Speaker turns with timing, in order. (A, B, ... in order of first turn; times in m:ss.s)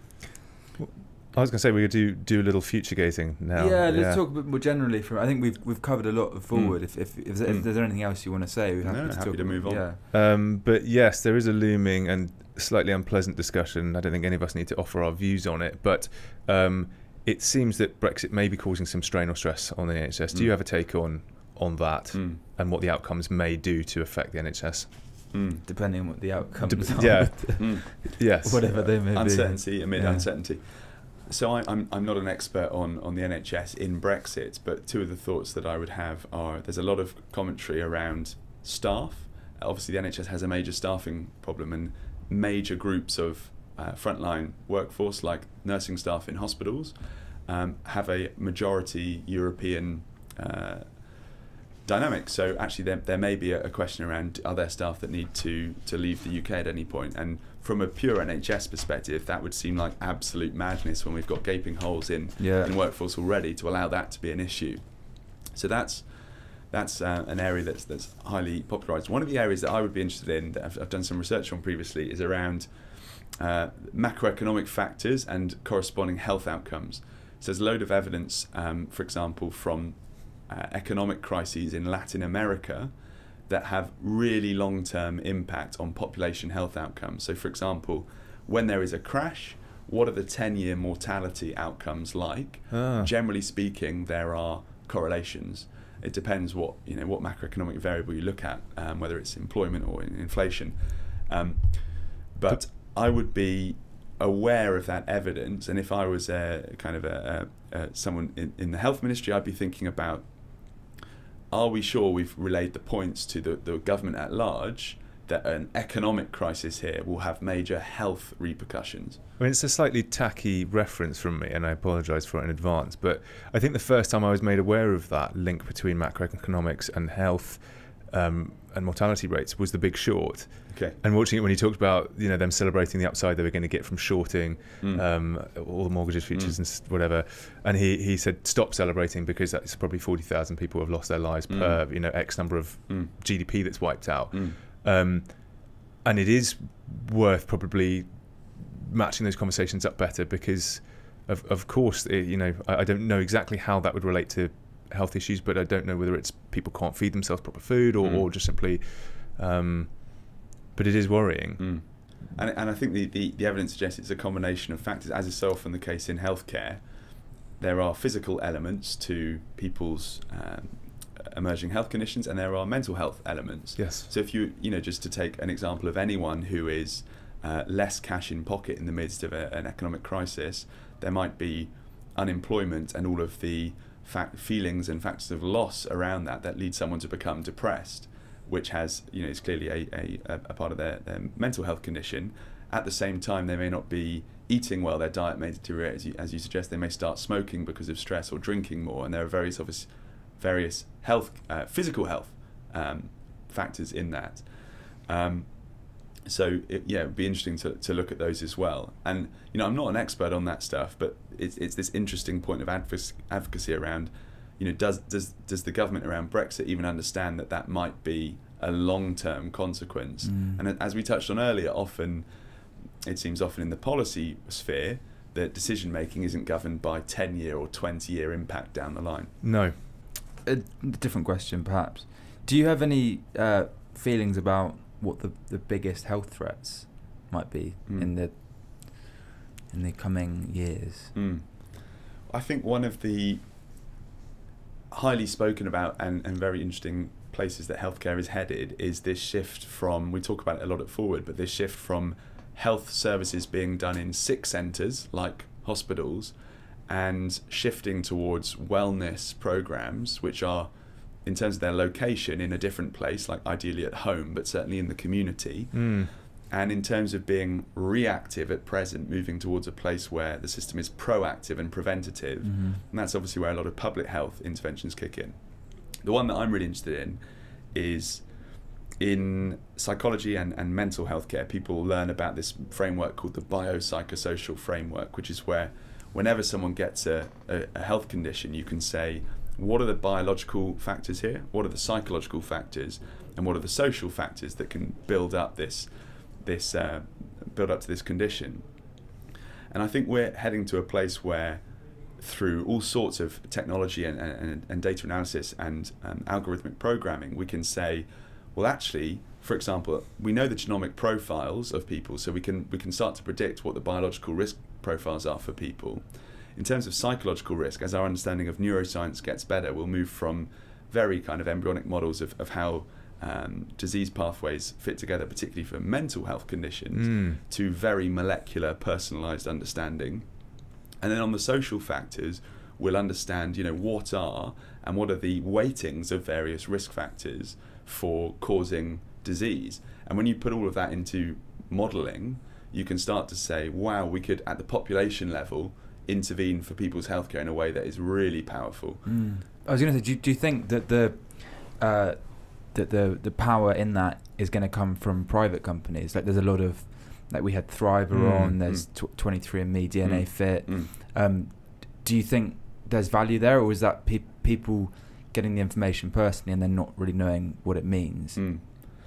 0:00.8-0:04.2 A
0:03.6-0:10.0 B
0:08.8-0:09.8 C
0:10.1-0:25.3 A
0:22.1-0:22.4 C
0:25.3-0:25.6 C
0:25.6-0:30.3 B
0:26.6-0:28.7 A
0:27.6-0:28.2 C
0:28.8-0:51.2 C
0:51.8-1:22.9 C
1:02.4-1:02.7 B
1:23.5-1:50.8 C
1:32.7-1:33.1 A
1:51.5-1:59.2 C
1:59.4-2:41.8 A
2:10.7-2:11.0 C
2:21.5-2:21.8 C
2:24.3-2:24.6 C
2:41.6-2:46.9 C
2:47.6-3:24.5 C
2:53.8-2:54.1 A
3:25.0-3:42.3 C
3:40.2-3:40.6 B
3:43.0-3:49.4 C
3:49.4-3:49.8 A
3:50.4-3:59.2 B
3:59.7-4:01.2 B
4:01.2-4:03.5 C
4:04.9-4:16.4 C
4:16.9-4:20.7 C
4:21.2-4:35.4 C
4:25.7-4:26.1 A
4:32.4-4:32.8 B
4:36.0-4:37.2 C
4:37.7-4:38.2 C
4:39.0-4:55.9 C
4:56.4-4:58.7 C
4:59.7-5:01.7 C
5:02.2-5:16.0 C
5:16.6-5:30.3 C
5:27.0-5:27.4 A
5:31.0-5:49.1 C
5:49.0-6:08.4 B
5:58.1-5:58.6 A
6:00.0-6:00.9 C
6:08.4-6:08.7 C